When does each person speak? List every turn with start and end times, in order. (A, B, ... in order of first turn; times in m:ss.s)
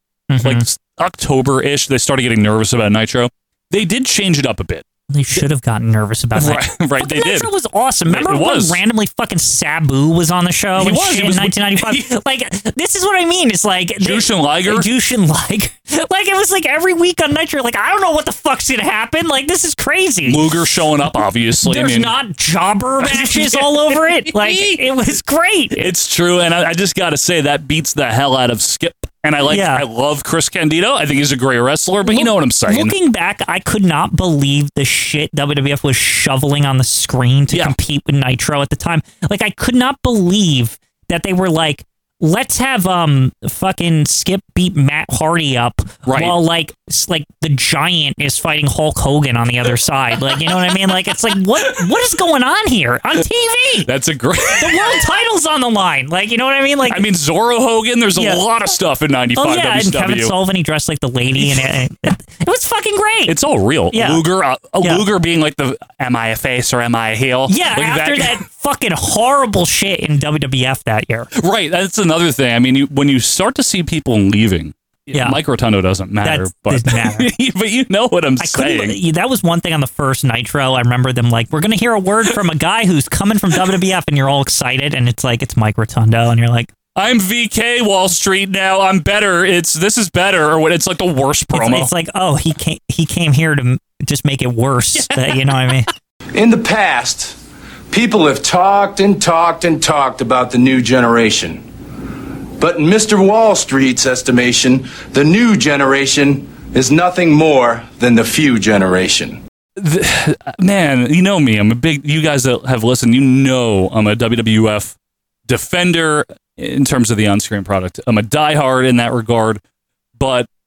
0:00.3-0:00.6 A
0:00.4-0:05.4 B
0:05.1-0:20.5 A
0:06.4-0:07.5 B
0:08.1-0:08.8 B
0:10.8-0:12.1 B
0:14.0-0:14.9 B
0:20.2-0:22.1 B
0:21.6-0:25.9 A
0:23.0-0:24.8 B
0:25.8-0:32.9 B
0:29.5-0:29.8 A
0:32.0-0:53.9 A
0:37.5-0:37.8 B
0:46.0-0:46.4 B
0:50.4-0:50.7 B
0:53.8-0:55.0 B
0:54.6-0:57.0 A
0:56.9-1:00.3 B
0:58.2-0:58.4 A
0:59.4-1:03.4 A
1:01.4-1:01.8 B
1:03.3-1:08.4 B
1:03.9-1:04.2 A
1:07.5-1:11.3 A
1:11.4-1:19.0 B
1:15.1-1:15.4 A
1:16.2-1:17.3 A
1:18.4-1:26.7 A
1:27.0-1:31.9 B
1:31.5-1:35.9 A
1:34.9-1:35.8 B
1:36.3-1:37.4 C
1:37.9-1:41.6 C
1:42.6-1:49.4 C
1:49.8-1:55.0 B
1:55.5-1:59.6 B
2:00.2-2:00.5 B